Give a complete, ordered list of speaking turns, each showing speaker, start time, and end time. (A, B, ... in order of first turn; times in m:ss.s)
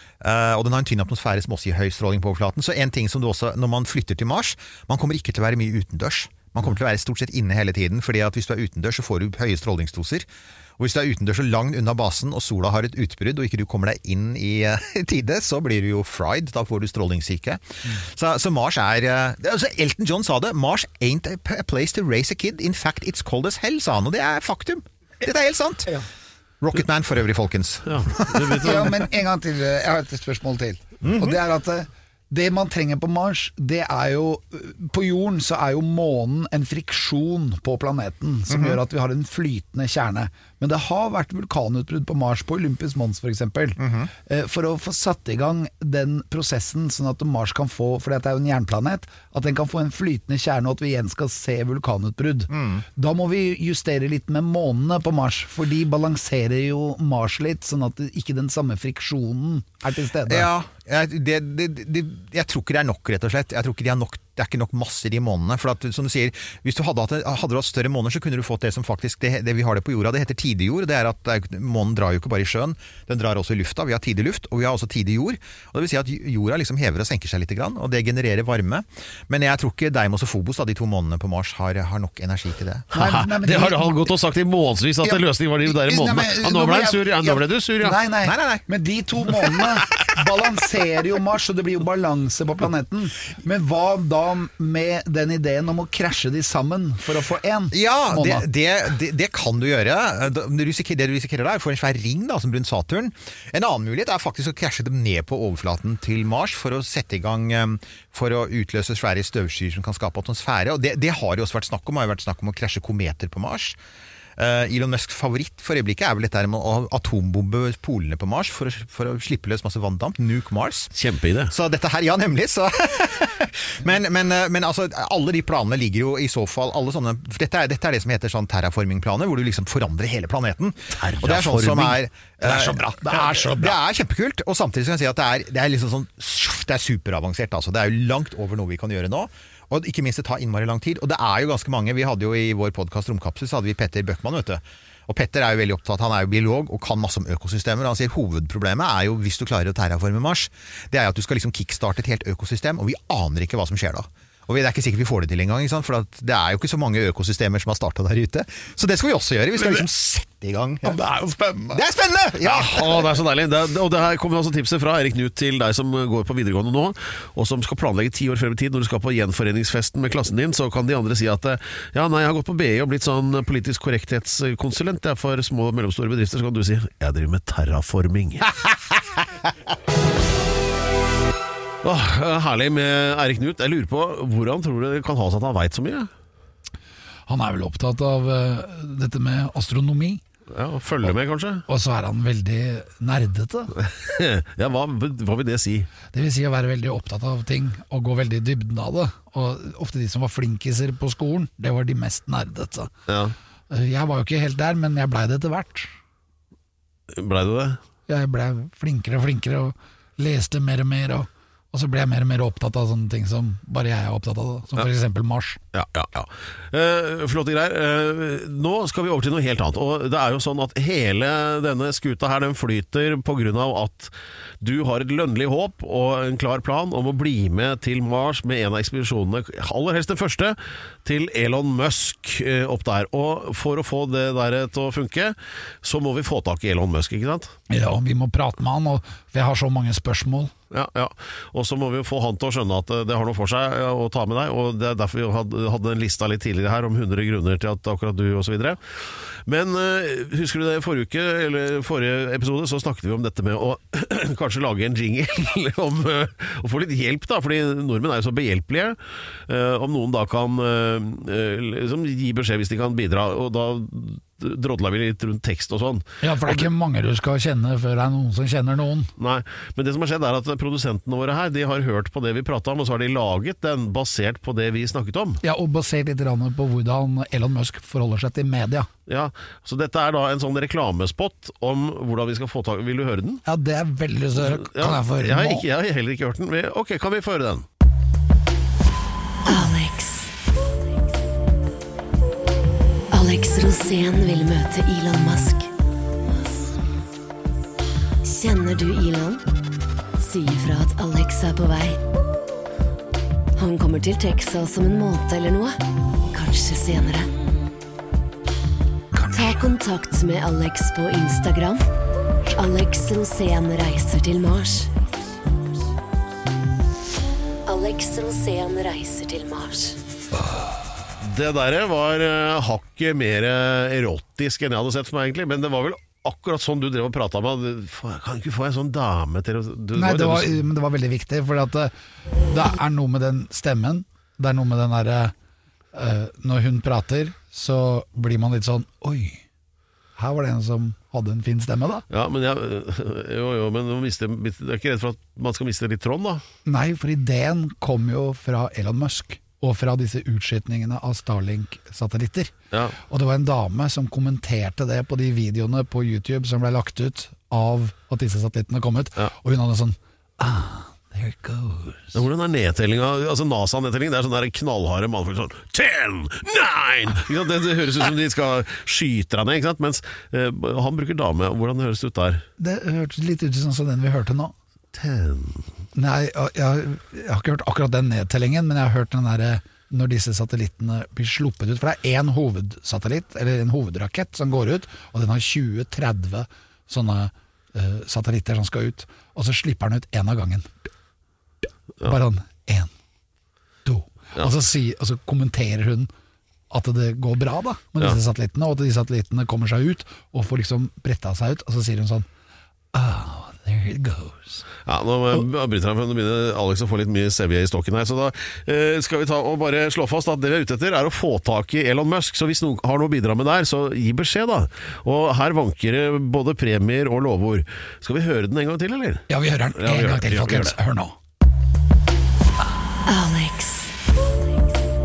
0:00.2-0:10.3 A
0:10.8-0:26.0 A
0:26.6-0:28.9 A
0:27.9-0:28.9 B
0:28.6-1:00.5 C
0:31.0-0:31.4 A
0:38.5-0:38.8 A
0:43.8-0:44.1 A
0:52.5-0:52.8 A
1:00.3-1:22.9 A
1:22.9-1:28.0 B
1:22.9-1:24.1 C
1:25.0-1:38.4 C
1:28.2-1:28.7 A
1:37.7-1:53.8 A
1:54.4-2:00.9 A
2:00.9-2:01.5 B
2:01.5-2:41.0 A
2:10.9-2:12.0 B
2:12.4-2:13.8 C
2:39.6-2:39.8 C
2:40.8-2:41.8 C
2:41.7-2:43.1 A
2:42.4-2:58.5 B
2:42.4-2:42.9 C
3:01.8-3:06.1 B
3:07.3-3:10.2 C
3:10.5-3:11.6 B
3:11.7-3:13.7 C
3:13.8-3:15.9 B
3:16.1-3:22.9 C
3:23.1-3:23.4 B
3:23.7-3:25.9 C
3:27.1-3:27.8 B
3:28.1-3:35.6 C
3:35.7-3:57.5 B
3:57.7-4:00.5 C
4:00.7-4:26.7 B
4:26.2-4:29.1 C
4:29.2-4:35.4 B
4:35.4-4:38.9 C
4:39.1-4:43.4 B
4:43.5-4:45.7 C
4:44.4-4:47.7 B
4:49.4-4:50.3 D
4:53.1-4:55.7 D
4:58.2-4:59.4 D
5:00.2-5:02.0 D
5:03.6-5:05.8 D
5:06.3-5:07.3 D
5:09.2-5:09.5 C
5:09.3-5:11.8 D
5:12.6-5:14.9 D
5:17.7-5:20.0 D
5:21.2-5:30.6 B
5:30.0-5:31.9 C
5:32.5-5:35.3 C
5:35.9-5:39.4 C
5:40.2-5:42.0 C
5:42.1-5:46.4 B
5:46.7-5:52.5 C
5:53.1-6:02.2 C
6:02.1-6:12.5 B
6:12.6-6:14.5 C
6:14.9-6:15.7 B
6:15.9-6:30.9 C
6:32.0-6:32.9 C
6:33.8-6:36.1 C
6:36.7-6:42.3 C
6:42.9-6:44.7 C
6:44.9-7:00.8 B
6:59.3-7:01.2 C
7:03.1-7:03.9 D